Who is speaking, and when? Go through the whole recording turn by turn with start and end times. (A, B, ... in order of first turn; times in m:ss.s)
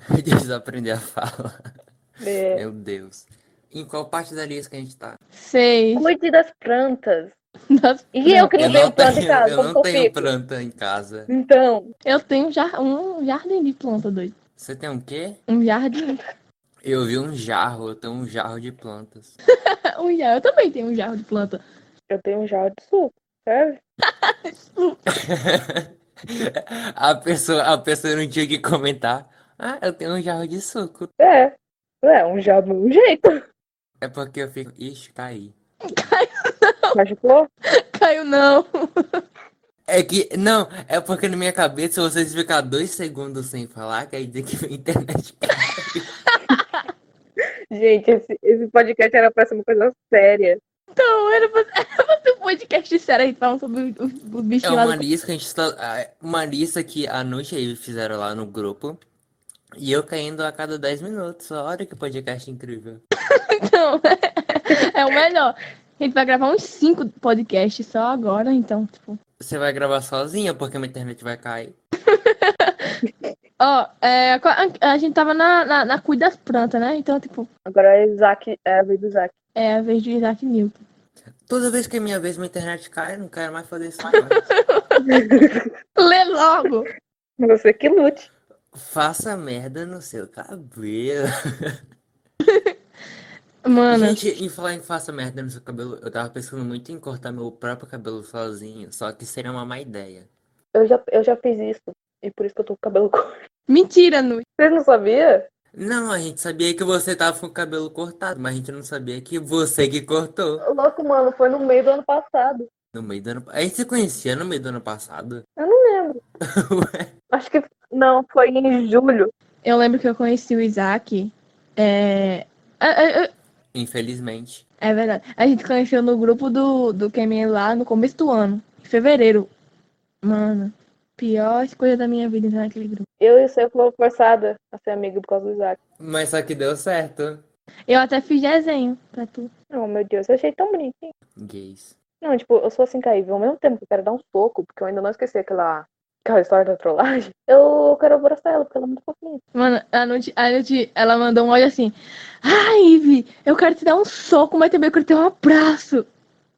0:00.1-0:01.7 A
0:02.2-0:02.6 B
0:02.5-0:05.2 A
0:05.3-0:06.1 C
0:05.9-0:07.3 B
0:07.7-0:08.6 C
0:08.1-0:10.3 B
0:08.6-0:11.3 A
0:11.3-0:11.9 B
0:12.0-0:14.3 C
0:14.6-0:15.4 A
0:15.5-0:16.2 C
0:16.8-0:19.3 A
0:19.5-0:21.6 C
0:22.1-0:23.8 B
0:24.0-0:25.0 C
0:25.1-0:31.1 A
0:31.2-0:33.4 B
0:34.0-0:35.5 A
0:35.8-0:37.0 C
0:36.9-0:37.5 B
0:37.7-0:39.2 C
0:39.9-0:46.2 A
0:46.3-0:46.8 C
0:47.7-0:50.6 B
0:51.0-0:55.0 C
0:54.6-0:59.0 A
0:59.8-1:03.0 A
1:03.3-1:09.2 C
1:09.4-1:11.8 A
1:12.0-1:13.0 C
1:13.6-1:17.5 C
1:17.6-1:19.3 B
1:19.6-1:20.8 C
1:21.5-1:24.5 A
1:24.1-1:25.1 C
1:25.0-1:25.7 B
1:26.0-1:26.9 C
1:27.4-1:28.3 B
1:28.7-1:31.8 A
1:32.4-1:32.7 C
1:33.6-1:34.2 C
1:33.9-1:40.3 A
1:40.7-1:43.4 B
1:43.7-1:44.4 C
1:44.6-1:45.4 B
1:45.7-1:50.6 A
1:50.6-1:52.7 B
1:52.9-1:55.4 A
1:55.6-1:56.2 B
1:56.4-1:57.1 A
1:57.3-1:59.3 B
1:59.6-2:03.3 C
2:03.7-2:04.6 A
2:04.8-2:09.5 C
2:10.2-2:13.1 C
2:13.2-2:15.8 B
2:16.0-2:17.4 A
2:17.9-2:19.5 C
2:19.7-2:21.1 B
2:21.4-2:22.0 A
2:22.2-2:29.4 B
2:29.5-2:36.1 C